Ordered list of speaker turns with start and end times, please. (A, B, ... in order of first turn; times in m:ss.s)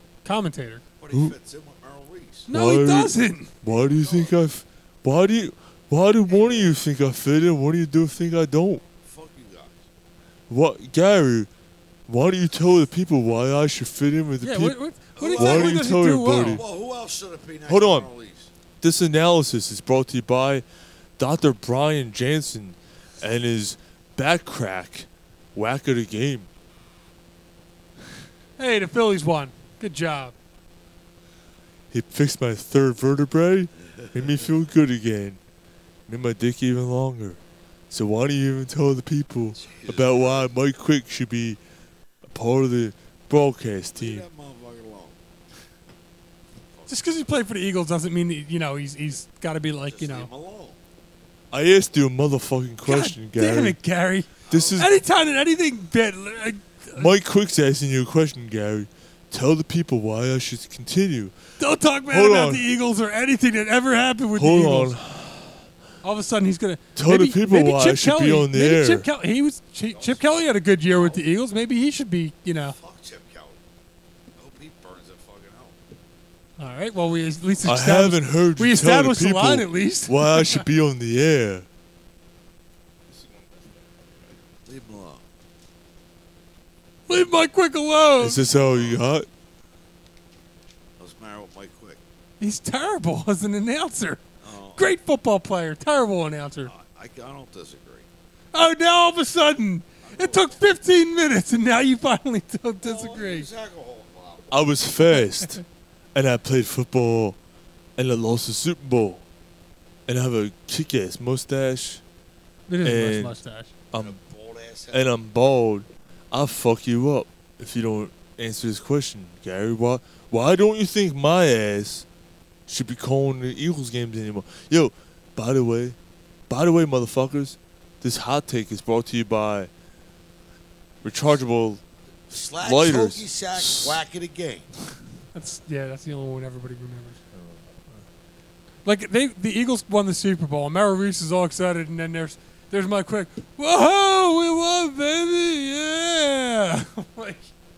0:00.2-0:00.8 A
0:01.0-0:02.5 B
0:02.5-0:03.5 A
0:02.5-0:08.8 C
0:03.6-0:04.4 B
0:06.3-0:06.8 B
0:09.0-0:09.9 B
0:10.5-0:11.5 C
0:12.1-0:16.6 C
0:14.4-0:16.6 A
0:15.2-0:18.5 B
0:17.7-0:18.1 C
0:18.8-0:20.6 C
0:21.2-0:26.5 C
0:28.6-0:30.3 A
0:31.9-0:35.4 C
0:33.9-0:34.5 B
0:36.1-0:37.4 C
0:37.9-0:41.6 C
0:39.5-0:40.5 B
0:42.3-0:44.2 C
0:44.0-0:45.2 B
0:46.7-0:47.2 B
0:46.9-0:50.3 A
0:49.8-0:50.8 B
0:51.5-0:53.8 C
0:52.8-0:57.1 A
0:54.4-0:54.9 B
0:54.5-0:54.9 C
0:57.0-1:01.3 C
1:01.6-1:05.0 A
1:02.1-1:02.7 C
1:04.3-1:05.6 C
1:06.0-1:12.8 A
1:07.0-1:09.0 C
1:09.8-1:11.2 B
1:12.6-1:13.6 B
1:14.4-1:15.8 B
1:16.6-1:20.6 A
1:17.6-1:21.6 C
1:23.1-1:24.3 C
1:24.6-1:25.2 B
1:27.1-1:28.4 A
1:28.2-1:29.3 C
1:28.6-1:29.0 B
1:31.0-1:32.0 B
1:32.4-1:34.2 A
1:34.4-1:34.9 B
1:34.8-1:36.7 A
1:36.6-1:38.1 B
1:38.5-1:43.5 A
1:40.0-1:40.6 B
1:42.8-1:44.8 B
1:44.5-1:45.6 C
1:46.1-1:47.4 C
1:48.0-1:49.2 C
1:50.1-1:52.0 C
1:52.7-1:53.7 A
1:52.8-1:53.3 C
1:53.9-1:54.2 C
1:53.9-1:55.4 B
1:54.9-2:02.0 C
2:02.7-2:06.0 C
2:06.5-2:09.7 C
2:11.0-2:11.8 C
2:12.3-2:14.7 B
2:12.6-2:14.0 C
2:15.3-2:17.2 A
2:17.3-2:18.0 C
2:18.8-2:27.5 A